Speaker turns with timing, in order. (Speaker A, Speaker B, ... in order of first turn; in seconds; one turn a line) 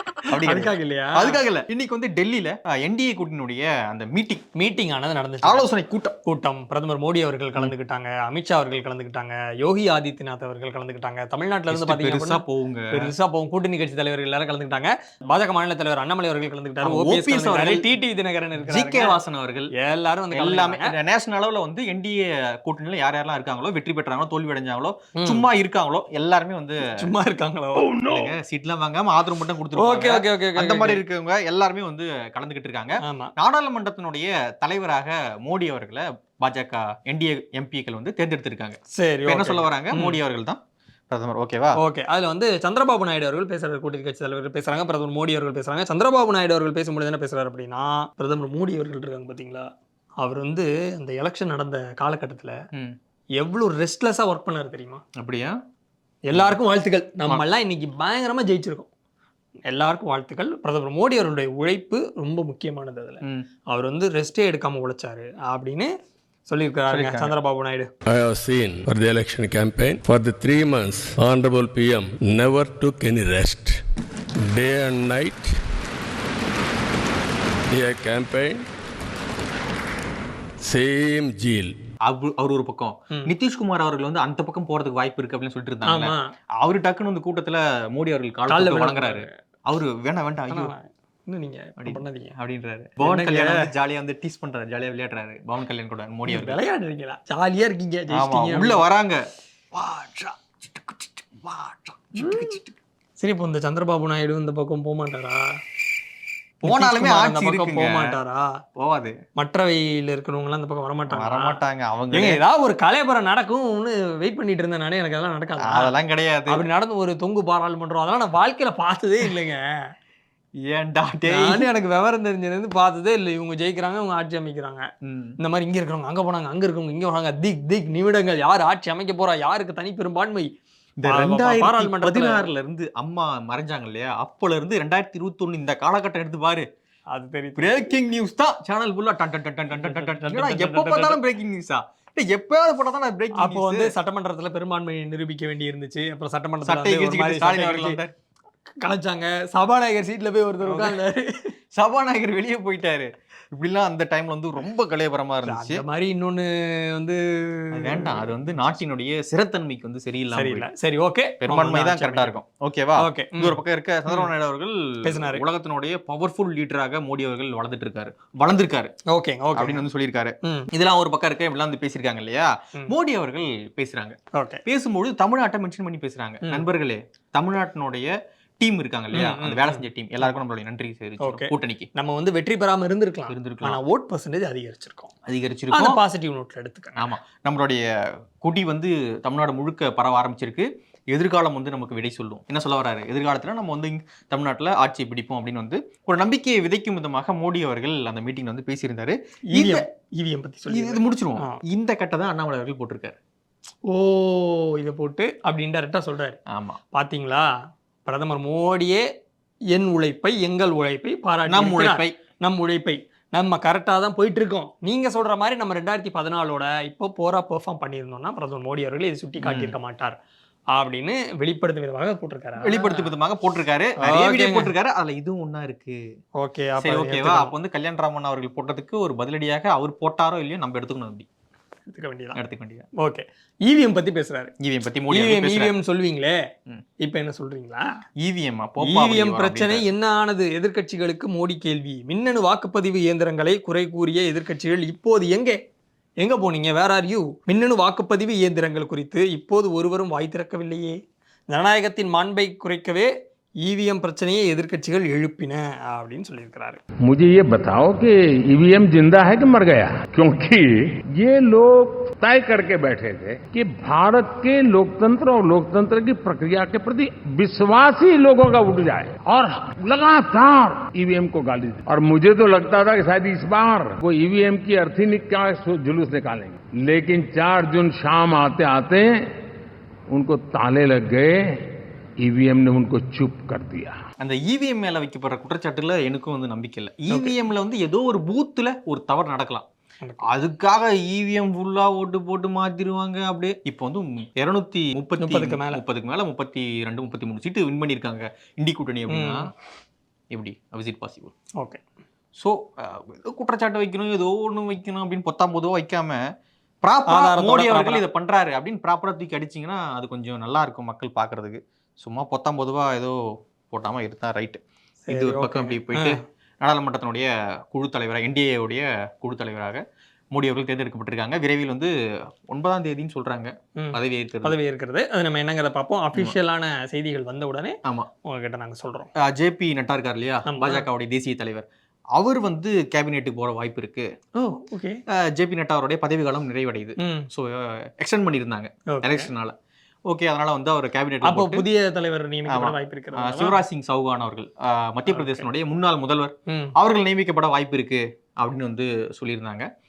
Speaker A: 0.3-4.4
Speaker B: 0.3-1.4
Speaker B: 4.5-5.7
Speaker A: 5.4-6.2
Speaker B: 6.2-19.2
Speaker A: 11.7-13.1
Speaker A: 16.8-17.9
Speaker A: 18.6-19.7
Speaker B: 19.8-20.9
Speaker A: 20.3-26.9
Speaker B: 25.2-25.5
Speaker B: 26.9-28.1
Speaker A: 27.8-41.8
Speaker B: 29.8-31.0
Speaker B: 33.0-33.3
Speaker B: 39.0-40.2
Speaker B: 41.8-52.6
Speaker B: 53.4-55.0
Speaker A: 55.2-55.5
Speaker B: 56.3-58.9
Speaker B: 59.7-65.9
Speaker A: 63.2-63.5
Speaker B: 66.5-67.9
Speaker A: 66.9-67.3
Speaker C: 68.0-73.8
Speaker C: 74.5-75.5
Speaker C: 77.7-78.7
Speaker C: 80.6-81.8
Speaker A: 82.1-90.7
Speaker B: 85.9-86.3
Speaker B: 88.5-89.3
Speaker B: 90.5-92.3
Speaker A: 91.8-96.6
Speaker B: 93.0-93.6
Speaker B: 96.3-98.8
Speaker A: 98.1-99.2
Speaker A: 99.7-102.7
Speaker B: 102.2-102.5
Speaker B: 103.2-105.4
Speaker A: 106.6-108.2
Speaker B: 106.6-108.6
Speaker A: 108.8-109.1
Speaker B: 109.3-111.6
Speaker A: 111.1-112.4
Speaker B: 112.1-115.9
Speaker A: 115.6-116.6
Speaker B: 116.5-119.9
Speaker A: 120.6-121.7
Speaker B: 121.3-124.9
Speaker A: 125.0-125.4
Speaker B: 125.4-130.5
Speaker A: 131.0-136.7
Speaker B: 131.1-132.4
Speaker B: 137.1-137.7
Speaker A: 137.6-143.9
Speaker B: 139.8-141.2
Speaker B: 143.4-148.0
Speaker A: 146.6-148.1
Speaker B: 148.8-151.5
Speaker A: 150.6-151.0
Speaker A: 151.8-155.8
Speaker B: 155.4-158.3
Speaker A: 157.7-160.7
Speaker B: 160.3-162.3
Speaker A: 161.4-168.9
Speaker B: 163.0-164.3
Speaker B: 165.0-165.4
Speaker B: 169.1-169.8
Speaker A: 169.6-181.9
Speaker B: 174.3-174.6
Speaker B: 179.1-179.8
Speaker B: 181.2-185.1
Speaker A: 183.3-183.8
Speaker A: 185.3-186.0
Speaker B: 185.7-187.2
Speaker A: 187.0-187.8
Speaker A: 188.4-199.8
Speaker B: 199.5-201.6
Speaker A: 200.7-203.2
Speaker B: 203.8-206.4
Speaker A: 206.5-206.8
Speaker B: 206.9-207.5
Speaker B: 208.1-209.1
Speaker B: 209.7-220.2
Speaker A: 211.5-212.1
Speaker A: 219.4-219.8
Speaker B: 220.7-223.1
Speaker A: 222.6-226.0
Speaker B: 224.0-224.7
Speaker B: 226.4-227.5
Speaker A: 226.8-231.2
Speaker B: 231.9-232.4
Speaker A: 232.3-232.9
Speaker B: 233.0-234.5
Speaker A: 234.6-235.7
Speaker B: 235.1-236.4
Speaker B: 237.0-237.9
Speaker A: 238.2-239.8
Speaker B: 238.8-245.6
Speaker B: 246.2-256.8
Speaker D: 257.0-279.2
Speaker D: 280.1-281.3
Speaker D: 282.2-284.0
Speaker A: 284.2-289.6
Speaker A: 290.2-299.5
Speaker B: 295.2-295.8
Speaker B: 299.1-299.5
Speaker A: 300.3-301.3
Speaker A: 302.4-306.2
Speaker A: 306.8-313.2
Speaker B: 307.1-308.0
Speaker A: 313.7-319.8
Speaker B: 315.1-316.2
Speaker A: 320.3-321.9
Speaker A: 322.5-324.6
Speaker B: 323.8-329.1
Speaker A: 329.2-331.6
Speaker B: 330.5-330.8
Speaker A: 332.1-334.1
Speaker B: 334.3-335.0
Speaker A: 335.1-339.5
Speaker B: 337.0-337.3
Speaker B: 338.9-339.3
Speaker A: 340.1-341.7
Speaker B: 341.2-343.6
Speaker A: 342.5-349.7
Speaker B: 345.1-345.4
Speaker B: 346.5-346.7